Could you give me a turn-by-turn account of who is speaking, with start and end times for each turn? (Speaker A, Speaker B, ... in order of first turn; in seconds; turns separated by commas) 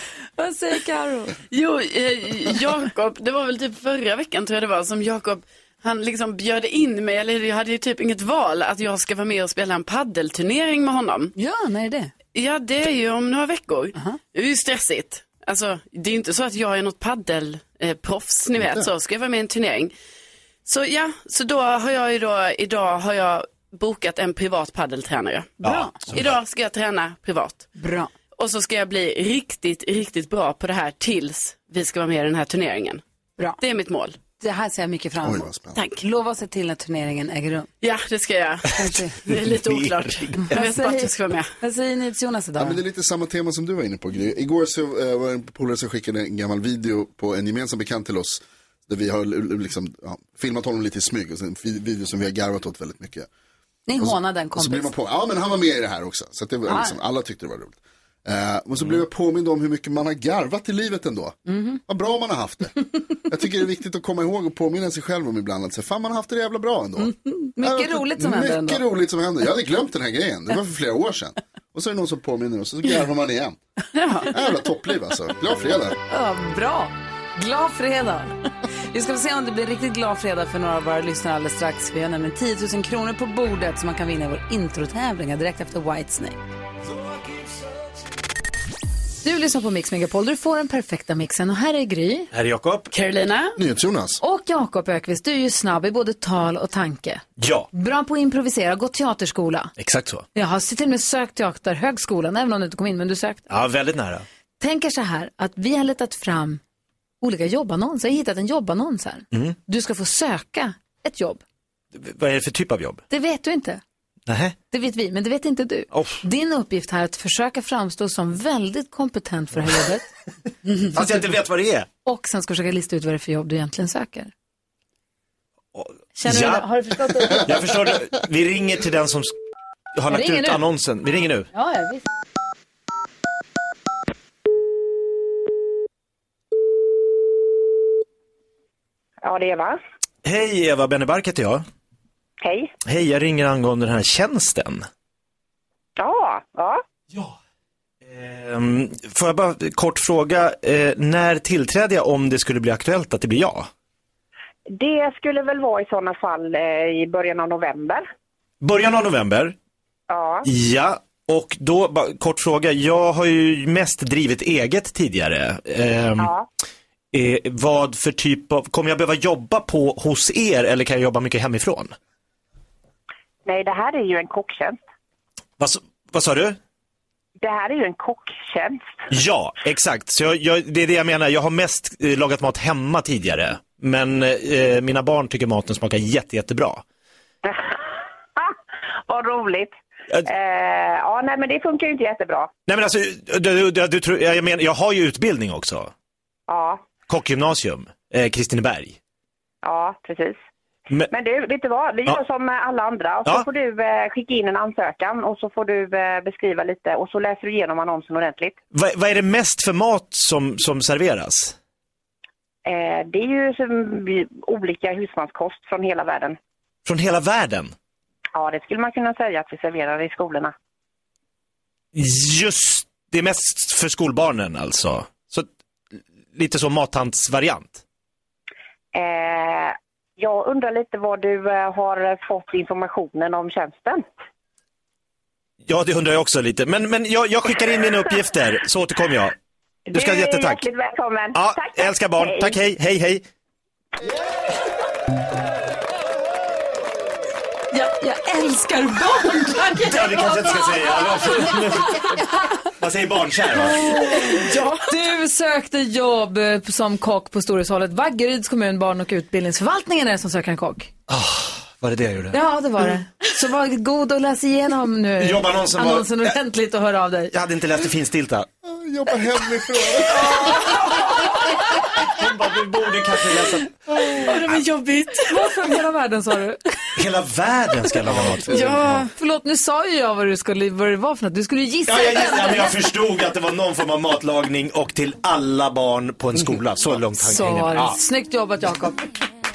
Speaker A: 0.4-1.4, Speaker B: 1.5-11.3, Speaker A: 11.4-12.1, Speaker B: 12.3-19.9, Speaker B: 20.7-27.7, Speaker A: 25.6-25.9, Speaker C: 25.6-26.3, Speaker A: 27.8-28.1, Speaker B: 28.4-33.0, Speaker B: 33.6-34.2, Speaker A: 34.4-35.5, Speaker D: 35.2-35.8, Speaker B: 35.8-36.0, Speaker A: 36.0-37.7, Speaker B: 37.8-41.5, Speaker A: 38.8-39.2, Speaker C: 39.4-40.6, Speaker A: 40.3-42.8, Speaker D: 42.6-53.3, Speaker A: 53.9-54.9, Speaker D: 54.0-73.6, Speaker A: 56.7-57.0, Speaker A: 61.5-61.8, Speaker A: 67.0-68.8, Speaker B: 74.0-74.3, Speaker D: 74.3-76.0, Speaker A: 76.1-78.4, Speaker A: 78.9-86.4, Speaker A: 89.2-92.3, Speaker C: 92.3-92.9, Speaker B: 92.9-93.6, Speaker D: 93.6-94.2, Speaker A: 94.2-99.7, Speaker C: 97.4-97.7, Speaker C: 99.8-100.2, Speaker A: 100.3-103.5, Speaker C: 103.5-104.2, Speaker A: 104.6-106.6, Speaker A: 107.2-111.4, Speaker C: 111.9-113.0, Speaker A: 113.1-113.8, Speaker C: 114.3-114.5, Speaker A: 114.7-120.0, Speaker C: 115.9-116.2, Speaker C: 120.9-121.9, Speaker A: 122.0-124.3, Speaker C: 125.7-126.7, Speaker A: 126.2-127.6, Speaker C: 127.4-129.3, Speaker C: 130.0-131.5, Speaker A: 130.1-130.6, Speaker A: 131.5-132.1, Speaker E: 139.2-139.8, Speaker C: 140.2-141.6, Speaker E: 142.4-142.7, Speaker C: 142.8-144.9, Speaker E: 146.0-146.8, Speaker C: 148.1-153.7, Speaker E: 154.7-158.1, Speaker C: 158.6-159.6, Speaker E: 160.1-160.5, Speaker C: 160.4-166.3, Speaker E: 166.2-166.5, Speaker C: 167.1-171.9, Speaker E: 173.4-174.8, Speaker C: 175.6-176.6, Speaker E: 177.4-179.0, Speaker C: 179.1-186.8, Speaker E: 187.4-187.8, Speaker E: 189.1-189.7, Speaker E: 190.3-192.5, Speaker C: 192.7-195.9, Speaker E: 196.5-196.9, Speaker C: 197.1-199.0, Speaker E: 199.6-200.4, Speaker E: 201.1-208.6, Speaker C: 208.7-211.6, Speaker E: 212.7-216.4, Speaker C: 216.9-217.7, Speaker E: 218.3-220.5, Speaker C: 221.9-225.5, Speaker C: 226.3-227.8, Speaker E: 228.9-234.0, Speaker C: 235.7-239.3, Speaker E: 239.9-242.6, Speaker C: 239.9-240.6, Speaker C: 241.3-243.2, Speaker A: 247.7-250.4, Speaker C: 249.8-254.0, Speaker B: 253.8-254.9, Speaker A: 253.8-260.9, Speaker C: 261.1-262.4, Speaker A: 262.3-267.3, Speaker C: 265.2-266.3, Speaker C: 267.3-268.5, Speaker D: 268.6-270.9, Speaker B: 270.2-271.0, Speaker C: 272.0-273.8, Speaker B: 274.2-275.5, Speaker A: 275.2-276.6, Speaker C: 277.0-279.0, Speaker D: 278.1-278.9, Speaker B: 278.5-279.1, Speaker A: 279.2-282.8, Speaker C: 281.9-288.0, Speaker A: 287.1-289.1